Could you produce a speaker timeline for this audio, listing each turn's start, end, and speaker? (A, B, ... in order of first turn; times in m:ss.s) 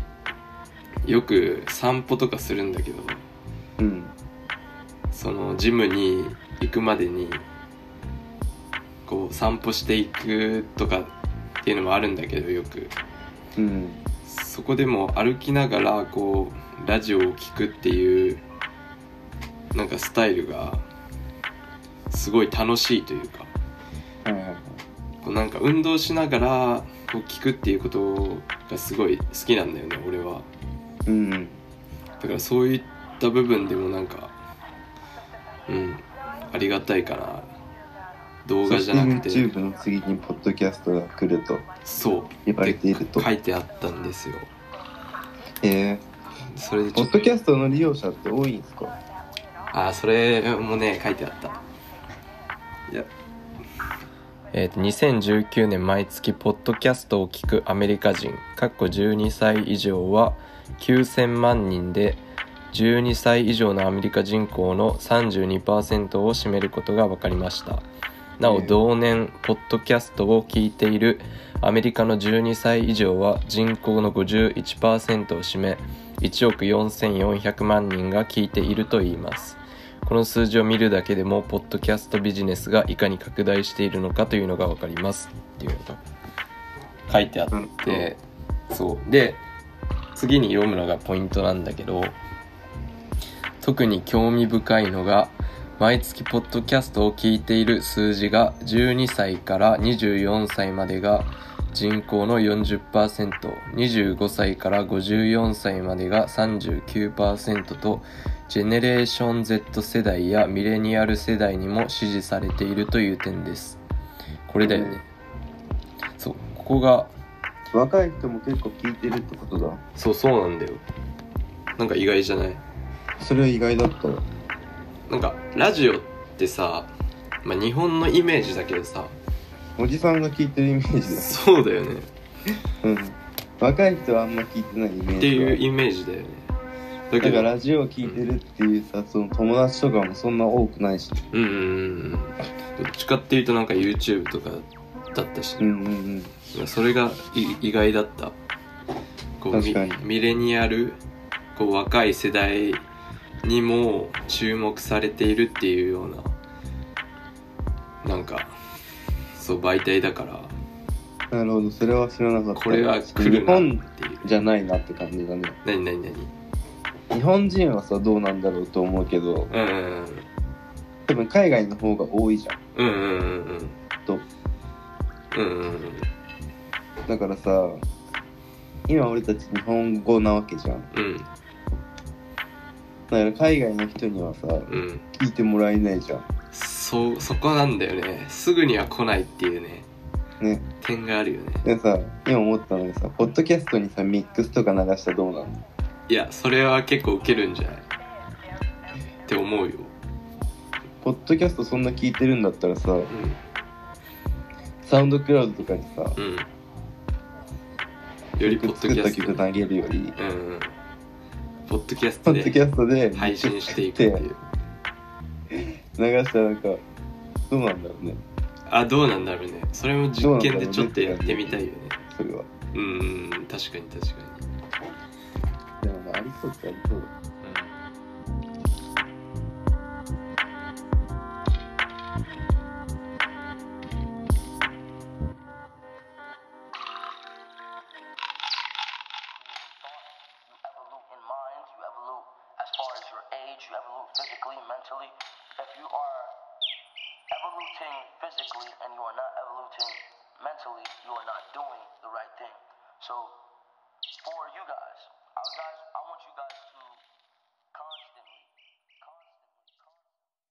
0:01.0-0:03.2 A
0:03.8-0:04.1 B
0:05.1-0:07.4 A
0:09.0-0:11.1 A
0:11.6-0:12.9 A
0:13.6-0:14.0 B
0:14.2-0:18.4 A
0:19.7-0:20.8 A
0:22.1-0:23.5 A
0:24.2-0:24.8 B
0:25.2-0:30.5 A
0:31.0-0:31.6 B
0:32.2-0:34.3 A
0:35.7-0:37.5 A
0:38.4-0:39.5 A
0:38.6-0:41.6 B
0:41.8-0:44.5 A
0:42.4-0:43.3 B
0:45.6-0:46.0 B
0:46.5-0:47.3 A
0:46.9-0:48.9 B
0:49.7-0:51.6 A
0:54.5-1:02.2 A
1:02.7-1:07.8 A
1:08.4-1:26.0 A
1:08.4-1:08.8 B
1:27.1-1:28.2 A
1:27.5-1:28.1 B
1:28.7-1:29.4 A
1:30.1-1:32.2 A
1:33.6-1:53.8 A
1:54.5-1:55.0 A
1:54.6-1:55.0 B
1:56.2-1:57.1 A
1:57.7-1:59.8 B
2:00.0-2:00.8 A
2:01.8-2:02.6 A
2:03.2-2:04.2 B
2:05.1-2:06.9 A
2:07.4-2:09.1 A
2:09.8-2:11.4 B
2:11.1-2:12.1 A
2:12.8-2:15.6 B
2:15.2-2:16.5 A
2:17.1-2:17.5 A
2:17.2-2:21.2 B
2:21.3-2:25.6 A
2:25.6-2:26.3 B
2:26.5-2:28.4 A
2:29.4-2:31.0 A
2:29.5-2:30.0 B
2:31.5-2:32.8 A
2:33.4-2:36.3 A
2:38.0-2:38.5 A
2:39.3-2:40.5 A
2:41.3-2:45.6 B
2:42.5-2:44.4 A
2:45.6-2:46.3 A
2:47.1-2:49.5 B
2:49.5-2:50.3 A
2:51.0-2:52.6 B
2:52.7-2:53.8 A
2:55.3-2:56.1 A
2:57.0-2:57.8 B
2:58.9-3:00.9 B
3:00.9-3:01.3 A
3:03.1-3:06.2 B
3:04.7-3:05.0 A
3:06.5-3:09.9 A
3:10.4-3:10.6 B
3:10.8-3:11.6 A
3:11.6-3:15.6 B
3:16.1-3:17.9 A
3:19.2-3:19.9 A
3:21.0-3:23.1 B
3:23.1-3:23.4 A
3:24.8-3:26.2 B
3:26.2-3:26.5 A
3:28.4-3:29.4 A
3:28.4-3:30.2 B
3:30.2-3:30.7 A
3:31.7-3:32.6 A
3:32.2-3:34.2 B
3:33.1-3:34.4 A
3:35.5-3:36.8 B
3:37.5-3:38.2 B
3:38.7-3:42.0 A
3:40.2-3:42.5 B
3:42.7-3:44.4 A
3:45.8-3:47.1 B
3:47.4-3:47.8 A
3:59.4-4:06.4 C
4:07.3-4:13.4 C
4:14.2-4:17.0 C
4:17.7-4:18.5 C
4:19.0-4:20.2 C